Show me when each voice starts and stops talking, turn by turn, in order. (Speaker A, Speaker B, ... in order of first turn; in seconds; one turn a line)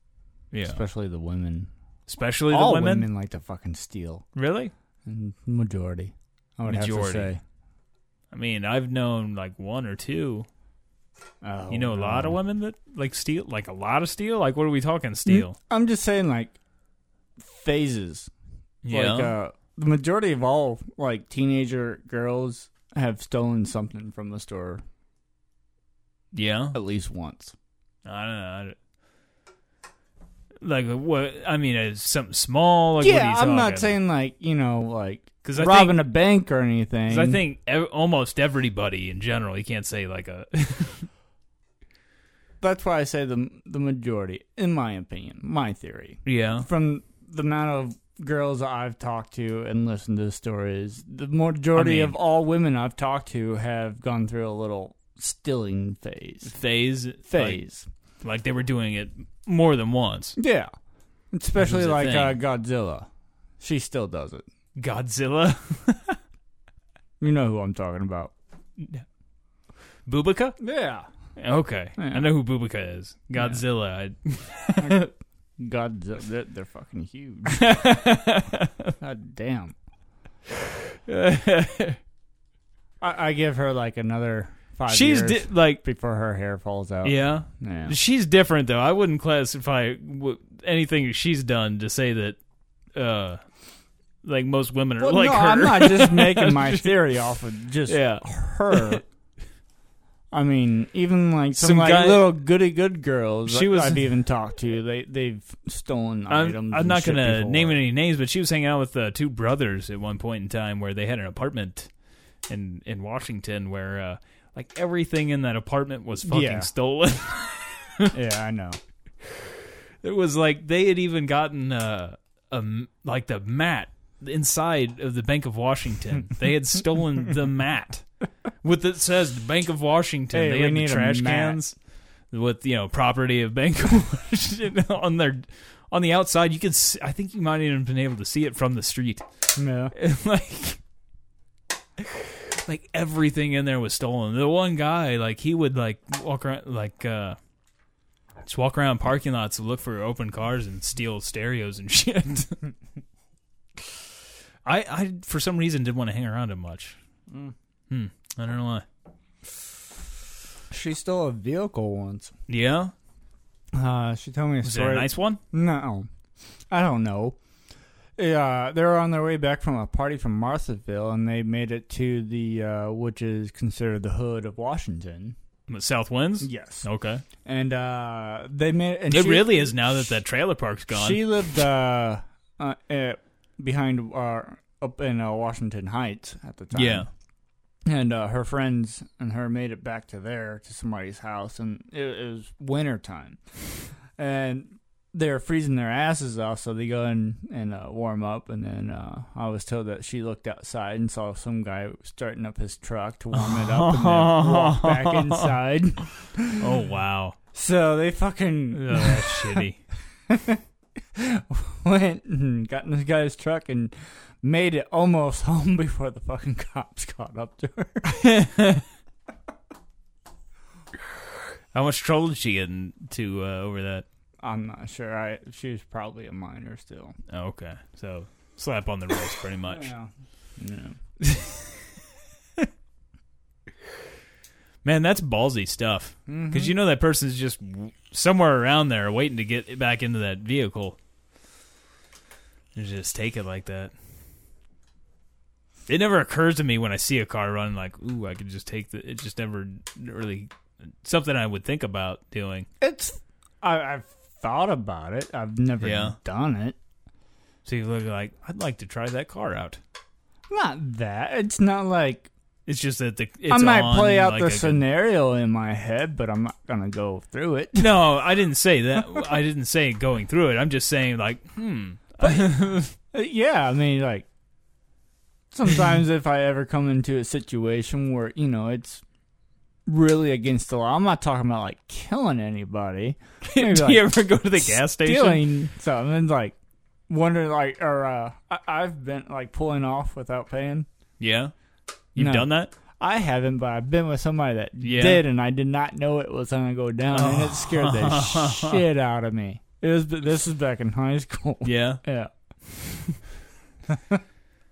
Speaker A: 0.5-0.8
Speaker B: 0.6-1.7
Speaker A: 2.1-3.1
Speaker B: 2.5-4.3
Speaker A: 4.3-4.7
Speaker B: 5.0-7.4
Speaker A: 6.7-7.3
Speaker A: 8.3-10.5
Speaker B: 11.4-12.4
Speaker A: 11.7-15.6
Speaker B: 15.2-16.6
Speaker B: 17.4-18.3
Speaker A: 18.9-19.4
Speaker B: 18.9-24.8
Speaker A: 26.3-26.8
Speaker B: 26.7-27.5
Speaker A: 28.1-28.8
Speaker A: 30.6-33.9
Speaker B: 33.0-37.4
Speaker A: 35.4-36.1
Speaker A: 37.1-41.1
Speaker B: 42.6-56.6
Speaker A: 46.2-46.7
Speaker A: 51.8-52.2
Speaker A: 56.5-57.6
Speaker B: 57.3-57.9
Speaker A: 58.2-60.4
Speaker B: 60.4-60.7
Speaker B: 61.3-63.1
Speaker A: 61.6-62.4
Speaker B: 63.6-64.5
Speaker A: 64.8-66.2
Speaker B: 67.2-68.3
Speaker A: 68.8-69.0
Speaker A: 70.1-70.6
Speaker B: 70.6-71.1
Speaker A: 71.4-75.1
Speaker B: 72.0-72.3
Speaker B: 73.4-73.6
Speaker B: 74.8-77.7
Speaker A: 77.5-78.9
Speaker B: 79.0-79.8
Speaker A: 81.1-82.0
Speaker B: 83.0-88.0
Speaker A: 84.9-85.8
Speaker A: 87.0-92.4
Speaker A: 92.9-93.4
Speaker A: 94.2-96.9
Speaker B: 95.0-99.0
Speaker A: 97.9-99.0
Speaker B: 100.3-107.9
Speaker A: 101.5-102.4
Speaker A: 103.5-104.0
Speaker A: 106.3-111.9
Speaker A: 112.5-118.1
Speaker B: 116.2-116.7
Speaker B: 118.1-118.8
Speaker A: 120.0-128.1
Speaker A: 128.6-131.7
Speaker B: 130.3-131.6
Speaker A: 132.3-139.2
Speaker B: 139.6-139.9
Speaker A: 139.9-140.8
Speaker A: 142.0-147.4
Speaker A: 148.4-152.6
Speaker A: 154.7-157.0
Speaker B: 157.3-157.5
Speaker A: 157.9-158.8
Speaker B: 160.7-162.3
Speaker A: 162.5-162.9
Speaker B: 163.7-166.1
Speaker A: 164.6-165.4
Speaker B: 166.7-167.4
Speaker B: 168.2-175.4
Speaker A: 175.7-177.2
Speaker B: 176.4-176.9
Speaker B: 177.4-180.2
Speaker A: 179.1-181.3
Speaker B: 180.9-187.1
Speaker A: 186.7-187.1
Speaker B: 187.8-193.4
Speaker B: 194.2-206.7
Speaker A: 203.3-205.5
Speaker A: 206.6-207.4
Speaker B: 207.5-209.6
Speaker A: 208.7-209.8
Speaker B: 210.3-210.6
Speaker B: 211.2-218.1
Speaker A: 218.1-218.8
Speaker A: 221.7-224.1
Speaker B: 224.4-227.2
Speaker A: 227.3-229.9
Speaker B: 229.7-231.0
Speaker A: 231.2-231.7
Speaker A: 234.8-241.0
Speaker B: 236.3-236.8
Speaker A: 242.8-243.9
Speaker A: 245.9-250.5
Speaker A: 251.0-252.7
Speaker B: 252.8-256.8
Speaker A: 255.8-256.2
Speaker A: 257.6-259.8
Speaker B: 260.5-262.3
Speaker A: 262.7-264.8
Speaker B: 263.5-268.0
Speaker A: 267.8-272.9
Speaker B: 272.2-274.3
Speaker B: 275.5-279.0
Speaker B: 279.9-286.6
Speaker A: 283.4-285.5
Speaker B: 287.1-290.9
Speaker A: 291.2-291.5
Speaker A: 292.1-292.7
Speaker B: 292.2-302.3
Speaker A: 294.8-295.3
Speaker A: 297.1-298.8
Speaker A: 301.6-302.0
Speaker B: 303.9-304.2